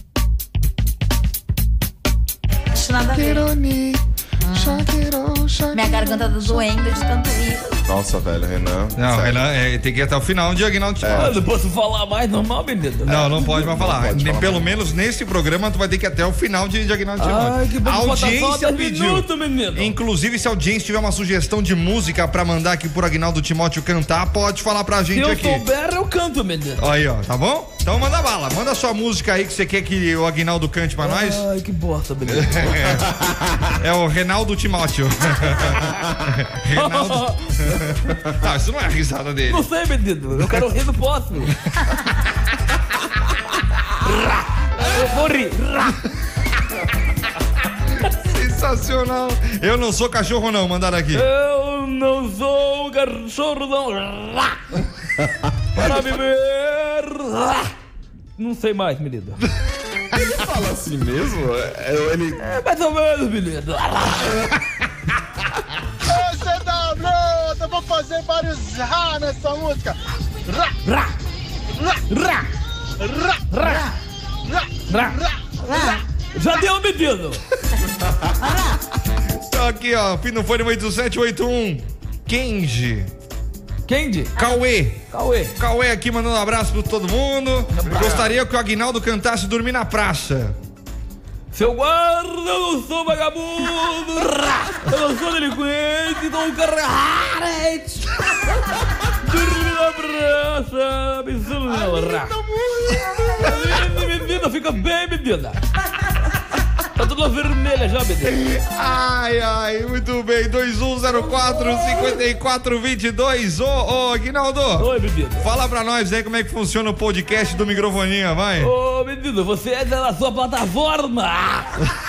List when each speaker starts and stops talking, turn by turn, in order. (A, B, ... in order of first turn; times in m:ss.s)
0:02.7-0:03.5 A
0:03.1-0:06.9 B
0:04.4-0:04.9 A
0:05.7-0:07.8 A
0:07.9-0:09.4 B
0:09.0-0:11.4 C
0:11.0-0:11.4 B
0:11.2-0:13.1 D
0:13.1-0:14.8 B
0:13.1-0:25.6 C
0:17.2-0:20.0 D
0:25.1-0:26.9 D
0:26.8-0:31.4 C
0:31.0-0:32.9 D
0:32.3-0:33.1 C
0:33.8-0:37.8 C
0:36.8-0:37.8 D
0:38.4-0:39.7 C
0:39.5-0:41.5 D
0:44.0-0:46.0 D
0:48.1-0:51.3 C
0:51.1-0:54.6 D
0:55.8-0:57.7 D
0:58.4-0:59.4 D
1:00.1-1:02.4 B
1:02.4-1:04.5 D
1:06.2-1:09.9 E
1:10.6-1:11.1 D
1:12.1-1:12.5 D
1:13.5-1:13.9 D
1:14.9-1:15.2 D
1:15.6-1:16.0 A
1:16.3-1:17.4 D
1:18.4-1:18.8 A
1:19.4-1:23.1 C
1:23.9-1:24.4 D
1:24.4-1:25.0 C
1:25.1-1:25.5 D
1:25.6-1:30.6 C
1:27.7-1:28.2 D
1:27.9-1:28.3 B
1:31.5-1:38.2 D
1:39.2-1:42.3 D
1:41.7-1:43.6 B
1:43.0-1:43.3 A
1:43.4-1:45.6 D
1:47.0-1:48.5 D
1:48.3-1:58.7 C
1:51.6-1:52.1 D
1:54.8-1:55.5 D
1:58.6-2:01.9 D